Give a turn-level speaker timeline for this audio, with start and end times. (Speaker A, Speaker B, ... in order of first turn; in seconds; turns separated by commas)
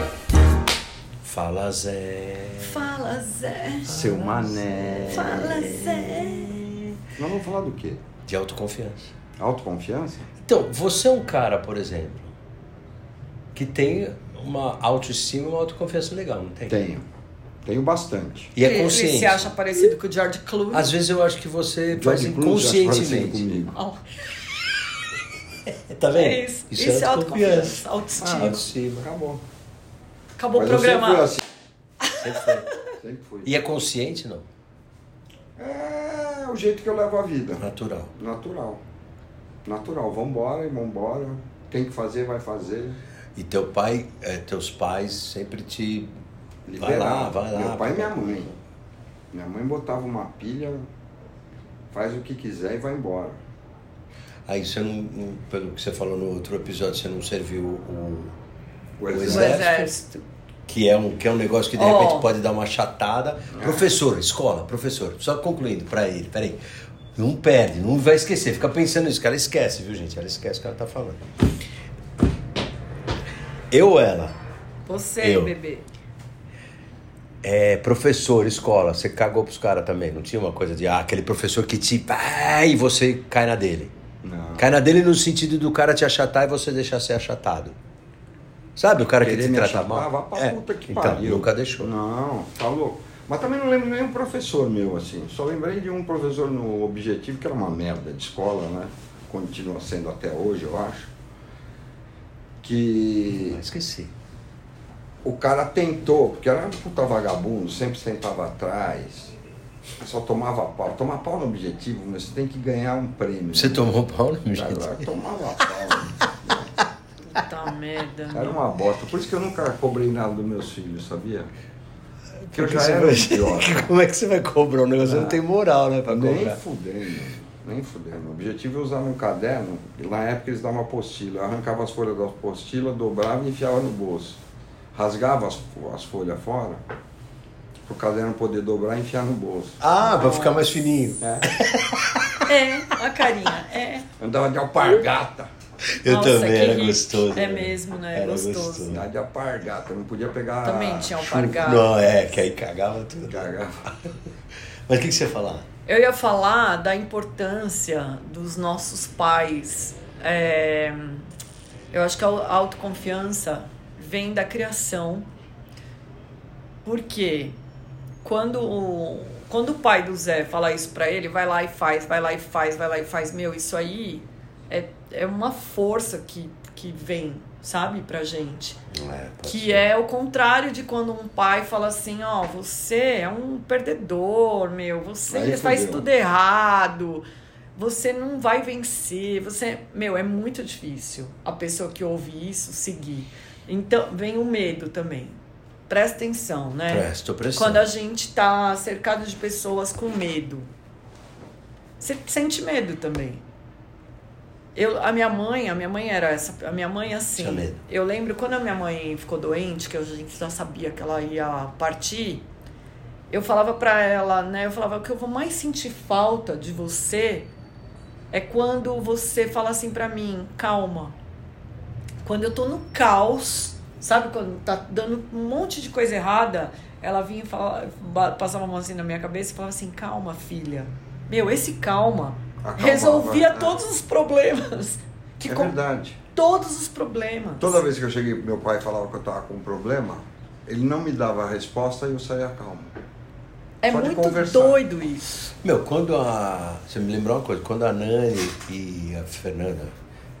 Speaker A: 1.2-2.9, Speaker B: 2.5-4.0, Speaker A: 3.9-6.9, Speaker C: 3.9-5.7, Speaker B: 5.1-6.6, Speaker C: 7.2-8.0, Speaker A: 8.2-9.1, Speaker C: 9.4-10.3, Speaker A: 10.4-12.3, Speaker A: 13.5-16.9, Speaker C: 16.7-17.1, Speaker C: 17.6-18.5, Speaker A: 18.5-19.8, Speaker B: 18.6-20.9, Speaker A: 20.7-23.7, Speaker C: 21.9-23.8, Speaker B: 23.7-24.0, Speaker A: 25.7-29.1, Speaker B: 26.1-28.6, Speaker C: 28.2-29.4, Speaker B: 30.4-31.3, Speaker C: 30.5-31.4, Speaker B: 32.0-32.8, Speaker A: 32.1-32.7, Speaker C: 33.0-33.5, Speaker A: 33.4-34.5, Speaker C: 35.6-38.8, Speaker A: 37.6-38.1, Speaker C: 39.6-43.0, Speaker A: 43.4-46.1, Speaker C: 46.7-48.5, Speaker A: 46.8-48.5, Speaker C: 49.3-50.9, Speaker C: 51.9-53.4, Speaker A: 54.5-58.3, Speaker C: 59.0-59.6, Speaker A: 59.1-59.9, Speaker B: 59.2-60.2, Speaker A: 60.7-66.6, Speaker B: 61.7-62.3, Speaker C: 63.5-63.9, Speaker A: 67.1-71.2, Speaker A: 73.7-74.3, Speaker B: 74.9-75.8, Speaker A: 75.2-75.5, Speaker A: 77.4-83.9, Speaker C: 84.2-84.7, Speaker A: 84.6-87.8, Speaker A: 88.8-91.9, Speaker C: 89.2-101.1, Speaker C: 102.6-103.6, Speaker A: 103.3-104.1, Speaker C: 105.2-109.3, Speaker C: 109.9-113.8, Speaker A: 113.5-115.0, Speaker C: 114.5-116.7, Speaker B: 117.3-118.6, Speaker C: 118.3-121.5, Speaker A: 122.4-126.6, Speaker C: 122.5-123.9, Speaker C: 125.0-125.4, Speaker C: 126.1-134.4, Speaker C: 134.9-136.8, Speaker C: 137.8-139.8, Speaker A: 139.8-142.5, Speaker B: 140.0-140.8, Speaker C: 141.2-141.5, Speaker B: 142.4-144.1, Speaker C: 144.2-145.5, Speaker A: 146.0-149.0, Speaker B: 146.0-148.9, Speaker C: 148.9-151.2, Speaker B: 150.6-151.9, Speaker A: 151.2-153.5, Speaker C: 153.3-153.9, Speaker A: 154.9-155.7, Speaker B: 155.8-161.3, Speaker B: 161.9-165.3, Speaker B: 166.8-167.6, Speaker B: 168.2-178.8, Speaker A: 178.9-179.8, Speaker B: 179.4-187.2, Speaker C: 185.3-186.1, Speaker B: 187.8-195.4, Speaker B: 195.9-200.7, Speaker A: 196.9-197.8, Speaker B: 202.0-203.4, Speaker B: 204.7-212.4, Speaker A: 207.3-207.8, Speaker B: 213.3-217.5, Speaker B: 218.3-221.1, Speaker B: 222.2-235.7, Speaker C: 232.6-233.8, Speaker C: 235.4-236.2, Speaker B: 236.3-237.8, Speaker C: 237.6-242.9, Speaker B: 243.8-245.3, Speaker C: 243.9-244.8, Speaker A: 245.6-249.9